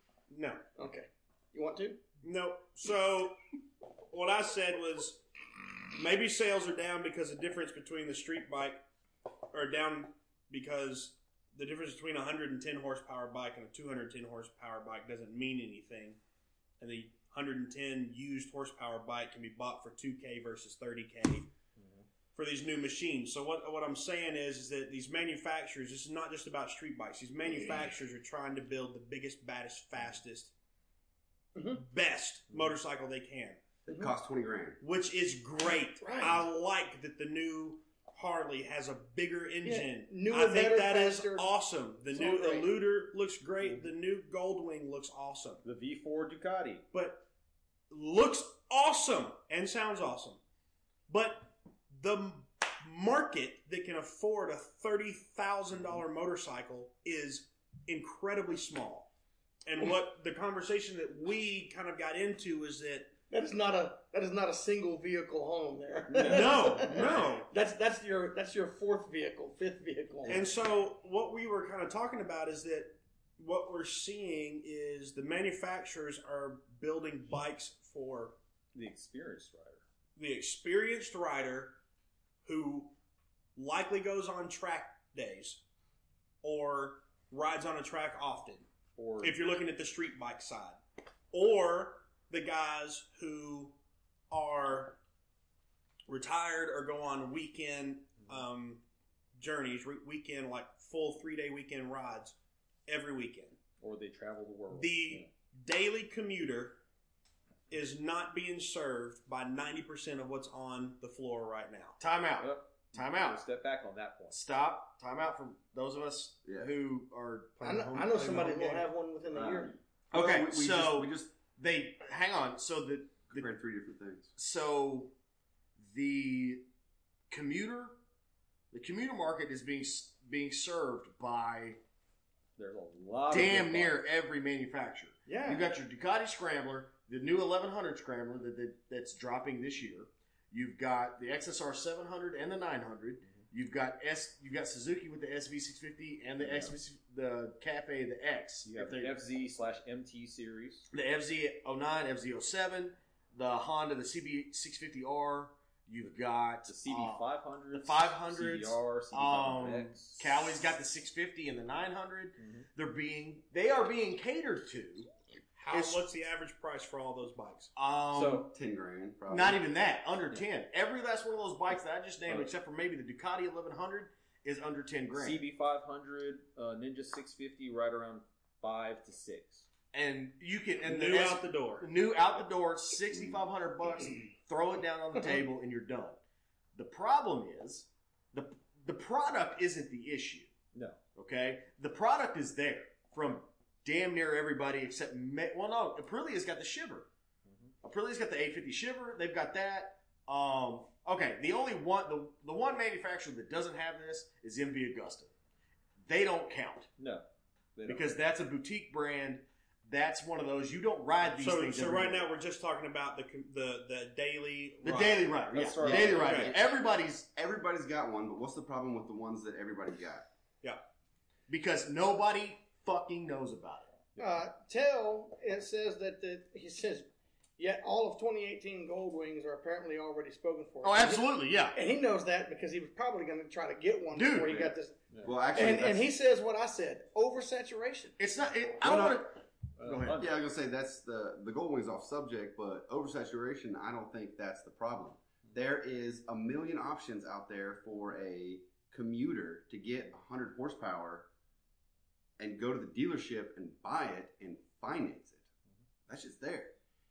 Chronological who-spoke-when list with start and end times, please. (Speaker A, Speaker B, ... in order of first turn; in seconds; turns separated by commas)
Speaker A: 0.3-0.6, Speaker B: 0.8-2.0, Speaker A: 2.2-3.4, Speaker A: 4.1-5.2, Speaker A: 5.9-8.8, Speaker A: 9.5-16.2, Speaker A: 16.8-21.5, Speaker C: 21.8-22.0, Speaker A: 22.3-30.5, Speaker B: 31.5-31.8, Speaker A: 31.7-33.6, Speaker D: 33.9-34.8, Speaker A: 34.8-45.6, Speaker B: 36.0-36.4, Speaker B: 39.6-41.5, Speaker B: 42.1-42.7, Speaker C: 45.6-46.8, Speaker A: 46.9-47.2, Speaker A: 47.9-50.4, Speaker A: 51.1-59.1, Speaker A: 59.6-63.1, Speaker B: 63.3-70.5, Speaker C: 66.1-67.2, Speaker A: 66.2-67.5, Speaker A: 70.3-78.3, Speaker C: 78.7-79.8, Speaker A: 80.2-81.8, Speaker A: 82.4-82.9, Speaker A: 83.5-85.6, Speaker A: 86.4-88.7, Speaker C: 89.0-89.3, Speaker A: 89.2-90.8, Speaker A: 91.3-93.7, Speaker A: 94.3-95.0, Speaker A: 96.1-98.8, Speaker A: 99.4-102.3, Speaker A: 102.9-103.6, Speaker C: 103.8-105.3, Speaker A: 104.7-106.8, Speaker A: 107.7-112.0, Speaker E: 112.0-113.4, Speaker C: 112.4-114.4, Speaker E: 114.3-117.7, Speaker D: 116.4-116.7, Speaker B: 117.6-119.8, Speaker A: 117.6-118.8, Speaker D: 119.3-121.3, Speaker E: 120.1-123.5, Speaker D: 123.3-124.3, Speaker E: 124.3-125.1, Speaker E: 125.8-126.6, Speaker E: 127.3-128.0, Speaker E: 128.7-131.8, Speaker C: 132.6-134.0, Speaker E: 133.3-149.1, Speaker B: 135.2-135.7, Speaker C: 146.4-146.7, Speaker C: 148.7-150.9, Speaker E: 150.9-157.2, Speaker C: 156.7-160.3, Speaker E: 157.7-165.1, Speaker C: 162.4-162.7, Speaker A: 165.6-167.7, Speaker E: 165.7-166.0, Speaker E: 167.8-168.5, Speaker C: 168.1-168.5, Speaker D: 168.5-169.6, Speaker E: 169.3-175.4, Speaker C: 175.1-179.7, Speaker E: 179.9-186.2, Speaker A: 180.8-181.9, Speaker E: 186.7-190.5, Speaker E: 191.1-197.1, Speaker C: 197.4-197.7, Speaker E: 197.8-205.3, Speaker E: 206.0-206.9, Speaker C: 207.0-208.1, Speaker E: 207.9-212.3, Speaker A: 211.2-215.4, Speaker E: 214.8-217.3, Speaker C: 215.5-216.6, Speaker D: 215.8-216.7, Speaker D: 217.3-220.2, Speaker E: 221.5-223.9, Speaker B: 224.2-227.1, Speaker B: 227.6-238.2, Speaker E: 230.8-231.8, Speaker E: 234.1-234.7, Speaker D: 235.2-236.1, Speaker E: 238.2-240.2, Speaker D: 238.8-239.3, Speaker C: 239.8-240.3, Speaker D: 240.1-251.3, Speaker D: 252.4-255.4, Speaker D: 256.1-256.7